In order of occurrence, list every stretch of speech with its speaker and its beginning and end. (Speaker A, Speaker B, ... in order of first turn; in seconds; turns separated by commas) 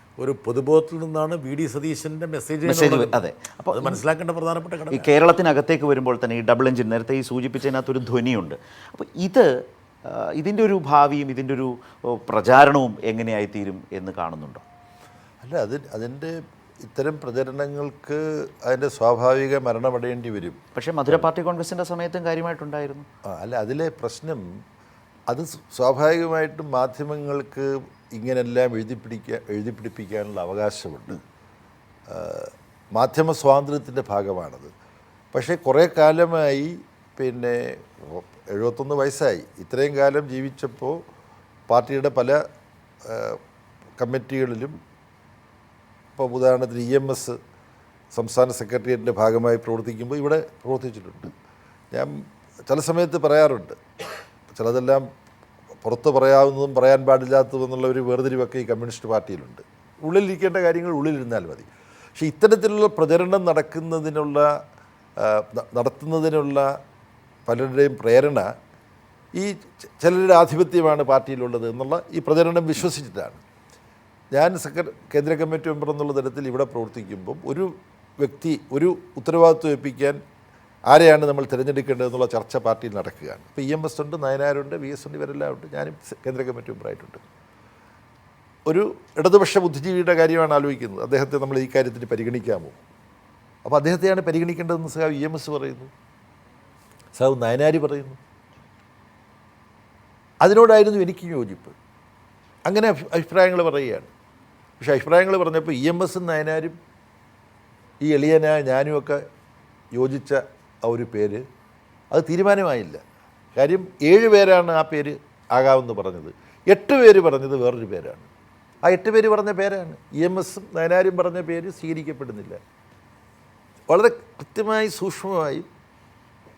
Speaker A: 0.2-3.2, Speaker B: 2.6-4.0, Speaker A: 3.7-5.1, Speaker B: 4.9-9.5, Speaker B: 10.1-14.6, Speaker C: 15.4-20.6, Speaker B: 20.7-23.1, Speaker C: 23.3-24.6, Speaker C: 25.3-31.2, Speaker C: 32.1-34.7, Speaker C: 35.3-41.0, Speaker C: 41.7-42.4, Speaker C: 43.0-43.4, Speaker C: 44.0-44.8, Speaker C: 46.2-47.4, Speaker C: 48.1-51.3, Speaker C: 52.7-53.8, Speaker C: 54.5-55.0, Speaker C: 55.8-64.5, Speaker C: 65.2-66.7, Speaker C: 67.5-68.5, Speaker C: 69.3-73.4, Speaker C: 74.3-77.7, Speaker C: 78.2-80.2, Speaker C: 80.9-87.2, Speaker C: 88.7-92.8, Speaker C: 93.6-95.9, Speaker C: 97.1-98.2, Speaker C: 100.4-101.8, Speaker C: 102.7-104.1, Speaker C: 104.8-106.8, Speaker C: 108.0-109.2, Speaker C: 109.9-111.4, Speaker C: 112.1-113.0, Speaker C: 113.5-118.3, Speaker C: 118.8-122.6, Speaker C: 123.9-125.7